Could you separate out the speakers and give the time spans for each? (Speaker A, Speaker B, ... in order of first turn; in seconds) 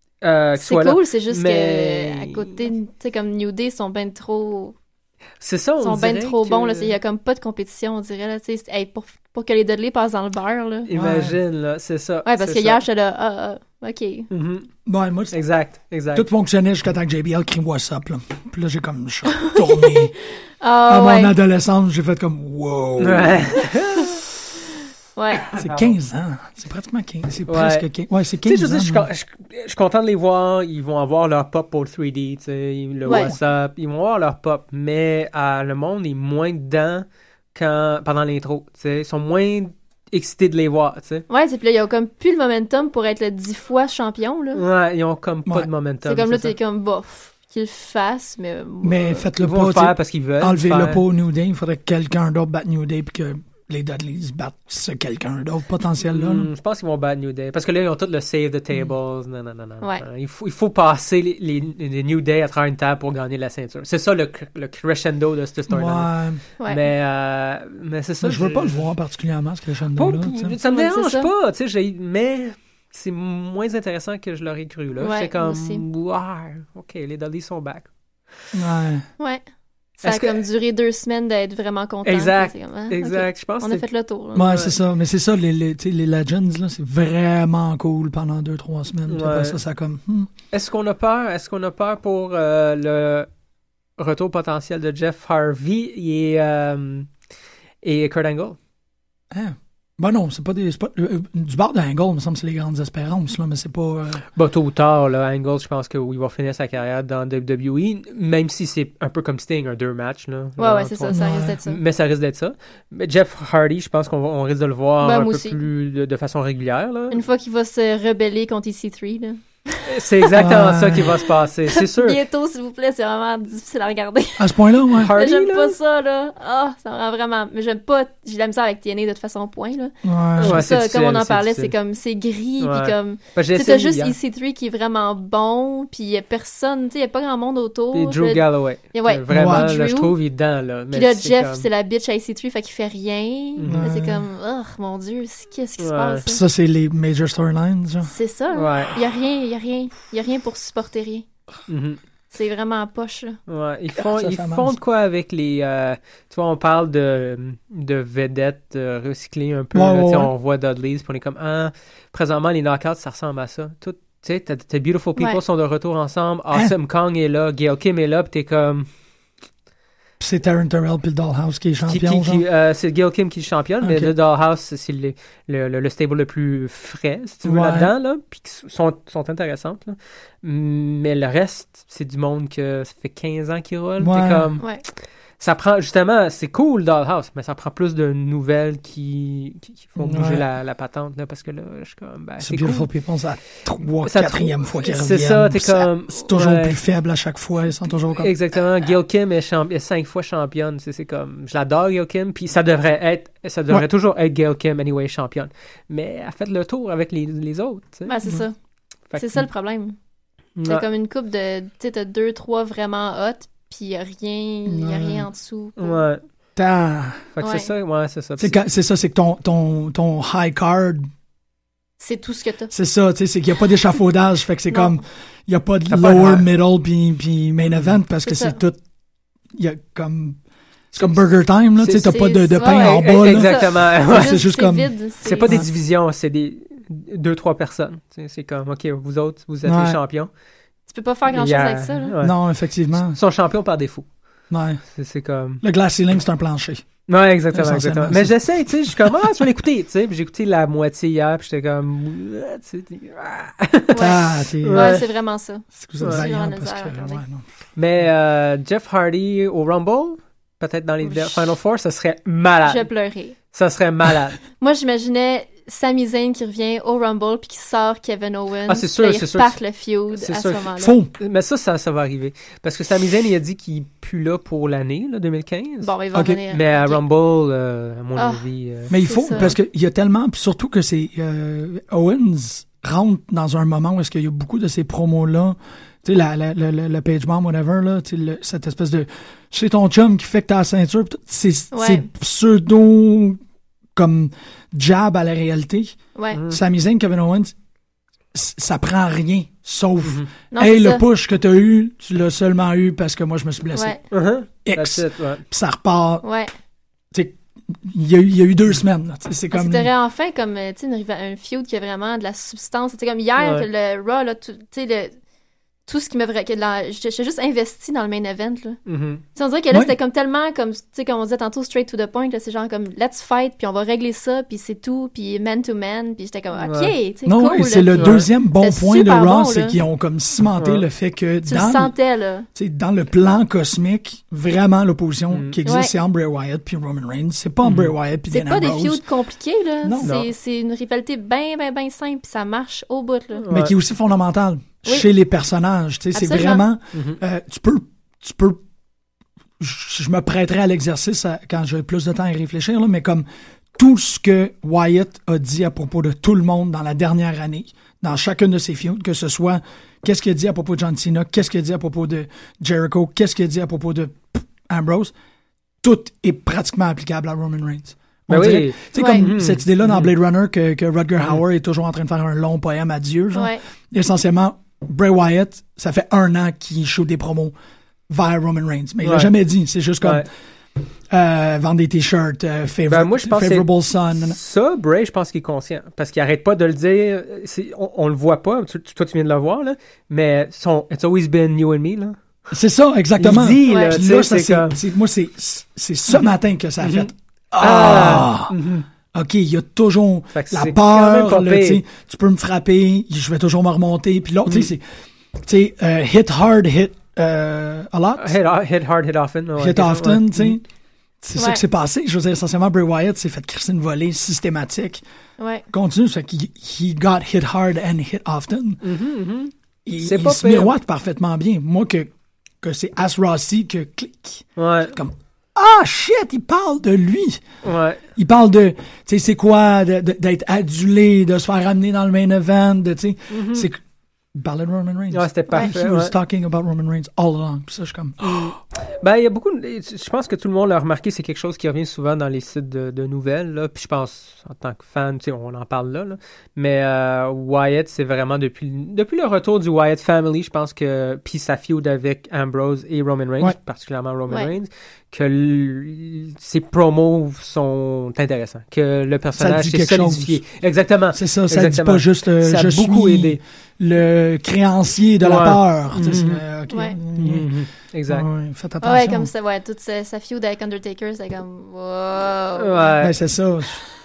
Speaker A: 0.2-2.5, 5.4-6.9, 10.8-12.8, 14.3-14.7, 15.3-16.2, 23.0-24.2, 25.5-25.9, 27.5-27.9, 28.4-41.2, 44.5-46.5, 49.4-51.0, 56.0-66.1, 66.7-68.8, 70.0-77.9, 80.0-80.4, 82.0-84.7, 89.1-89.6, 90.5-93.3, 94.0-97.1, 97.8-98.6, 104.3-117.2, 119.8-122.2, 125.0-125.8, 130.4-131.7, 132.6-134.1, 137.9-141.7, 143.6-143.9, 145.8-146.2, 148.5-149.0, 151.7-152.0, 153.5-168.9, 171.8-184.7, 185.4-192.9, 194.0-196.8, 198.2-208.1, 210.6-210.8, 215.8-216.2, 217.3-218.6, 225.9-226.5, 227.7-227.9, 231.8-234.4, 235.2-240.3, 241.3-242.3, 243.0-244.1, 244.9-245.6, 247.1-254.1, 254.6-255.1, 257.8-262.9, 263.5-264.4, 268.7-269.6, 270.1-275.9, 276.5-279.5, 296.3-296.6, 304.1-305.4, 313.4-313.6, 318.9-319.2, 326.6-326.9, 328.0-328.3, 330.6-330.8, 335.3-335.6, 337.6-337.9, 340.0-340.3, 343.4-343.7, 346.9-347.2, 368.3-370.1, 379.0-379.3, 380.0-380.2, 382.9-392.2, 393.2-394.8, 396.8-398.8, 400.3-401.8, 408.2-410.6, 418.8-420.7, 424.6-424.9, 427.6-428.0, 433.3-433.7, 435.1-436.1, 438.2-463.4, 465.2-466.4, 467.2-468.3, 472.6-473.1
Speaker B: 0.6-4.7, 5.8-10.9, 12.2-14.3, 19.4-20.1, 20.6-21.3, 25.1-25.5, 33.0-33.3, 41.3-44.6, 46.0-49.2, 70.7-71.3, 75.0-75.8, 80.0-84.6, 110.6-111.8, 115.0-115.6, 117.1-120.3, 121.7-124.6, 125.1-140.2, 140.9-146.4, 148.0-151.2, 152.3-153.4, 208.1-208.5, 209.2-209.9, 210.7-216.0, 217.4-217.7, 222.0-222.7, 228.2-228.6, 232.0-235.6, 240.9-242.1, 253.9-257.2, 261.0-261.4, 262.6-263.3, 264.6-270.9, 275.8-277.0, 278.1-278.4, 278.9-279.5, 291.7-292.1, 296.1-296.4, 300.5-301.0, 303.7-304.0, 306.2-306.5, 309.5-315.1, 315.9-318.8, 319.3-329.8, 331.4-332.5, 335.6-335.9, 338.3-343.4, 346.1-346.6, 368.9-369.3, 373.3-373.6, 393.7-394.0, 411.4-411.6, 415.4-415.6, 466.7-467.0, 468.8-472.9
Speaker C: 10.9-11.4, 14.8-15.4, 16.1-20.1, 20.9-23.5, 25.6-29.1, 33.1-33.4, 48.8-56.5, 65.7-66.4, 68.2-70.5, 78.5-79.0, 84.3-90.3, 99.3-104.2, 111.1-111.5, 120.3-121.2, 124.4-125.1, 130.0-130.6, 139.3-139.7, 143.7-144.2, 146.2-148.1, 153.9-154.7, 159.7-160.3, 170.2-172.4, 173.8-174.1, 177.4-177.9, 184.0-184.5, 190.0-190.4, 192.4-198.3, 214.7-215.3, 216.6-217.3, 218.4-221.1, 222.7-228.8, 229.5-230.4, 230.9-234.9, 239.6-240.0, 242.2-243.2, 244.5-244.8, 245.6-246.9, 247.5-249.3, 253.9-255.0, 255.8-257.4, 270.8-271.1, 276.1-276.4, 278.9-293.4, 293.9-295.9, 296.5-297.5, 298.3-304.0, 304.6-306.2, 307.1-309.9, 327.2-331.9, 332.5-339.0, 339.8-340.1, 343.5-348.6, 349.6-365.1, 365.8-377.5, 378.1-380.3, 381.1-384.4, 392.5-398.6, 399.1-404.8, 405.4-408.3, 409.6-410.6, 411.2-415.0, 415.7-418.8, 419.9-422.1, 422.6-427.4, 428.2-433.8, 434.3-438.5, 459.4-460.4, 461.1-467.5, 468.1-469.3, 473.0-473.8